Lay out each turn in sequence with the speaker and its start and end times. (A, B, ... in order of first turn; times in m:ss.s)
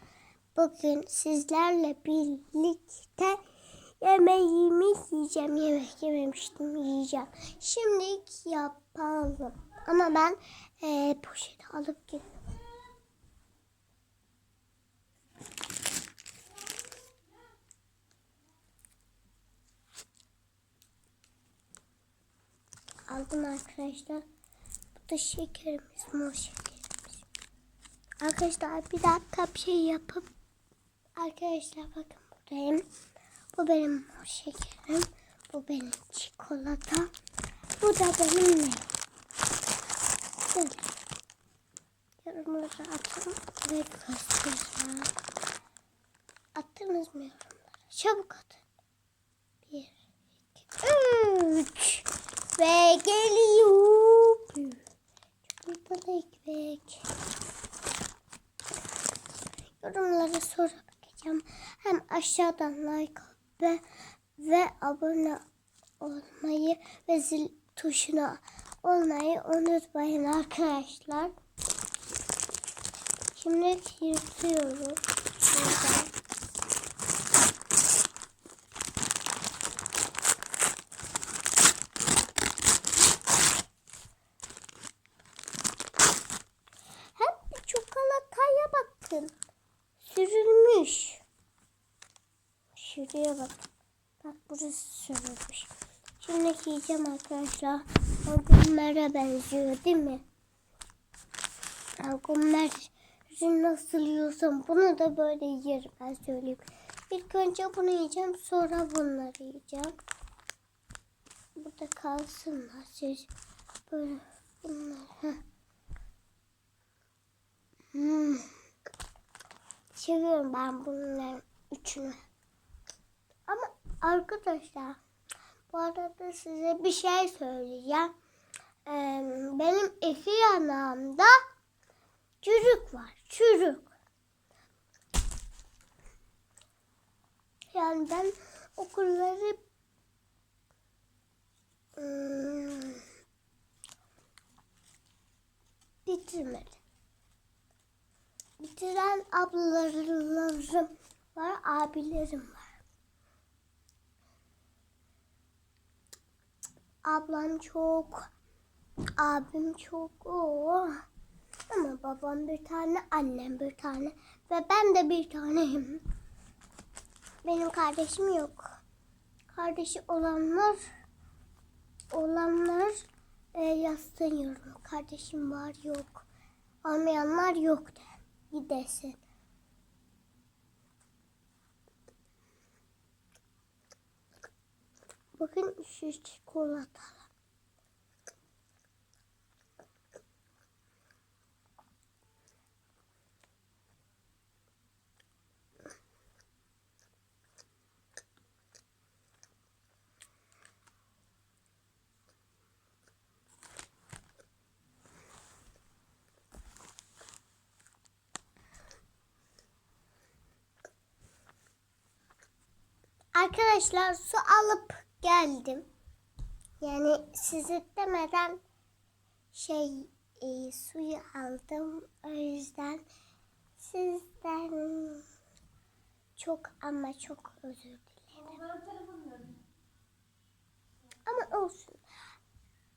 0:00.5-0:03.4 A
0:04.0-0:12.5 A
0:23.1-0:24.2 A
0:25.0-0:27.2 A
0:28.2-0:30.3 A
0:31.2-0:32.8 A
0:33.5-0:37.1 A
0:37.8-0:38.9 A
0:40.4-0:40.9 A
0:42.2-0:45.1 A
0:46.5-0:48.6 A
0:49.6-0:54.8 A
0:55.4-0:57.1 A
0:59.8-1:05.4 A
1:06.0-1:11.3 A
1:13.3-1:16.1 A
1:27.1-1:29.3 A
1:30.0-1:31.2 A
1:32.7-1:33.6 A
1:34.2-1:40.2 A
1:42.0-1:50.0 A
1:51.6-1:53.3 A
1:53.9-1:55.4 A
1:57.9-1:58.5 A
1:59.9-2:02.2 A
2:03.5-2:05.0 A
2:05.7-2:08.1 A
2:08.8-2:11.4 A
2:12.4-2:13.9 A
2:17.7-2:19.6 A
2:22.0-2:23.0 A
2:26.0-2:26.8 A
2:28.6-2:32.8 A
2:37.0-2:38.3 A
2:39.2-2:41.0 A
2:41.7-2:46.0 A
2:47.4-2:48.8 A
2:49.5-2:50.9 A
2:52.1-2:56.2 A
2:56.8-2:59.2 A
3:05.4-3:07.3 A
3:33.3-3:35.9 A
3:36.8-3:38.6 A
3:39.5-3:43.0 A
3:43.8-3:45.3 A
3:46.4-3:48.8 A
3:51.2-3:52.0 A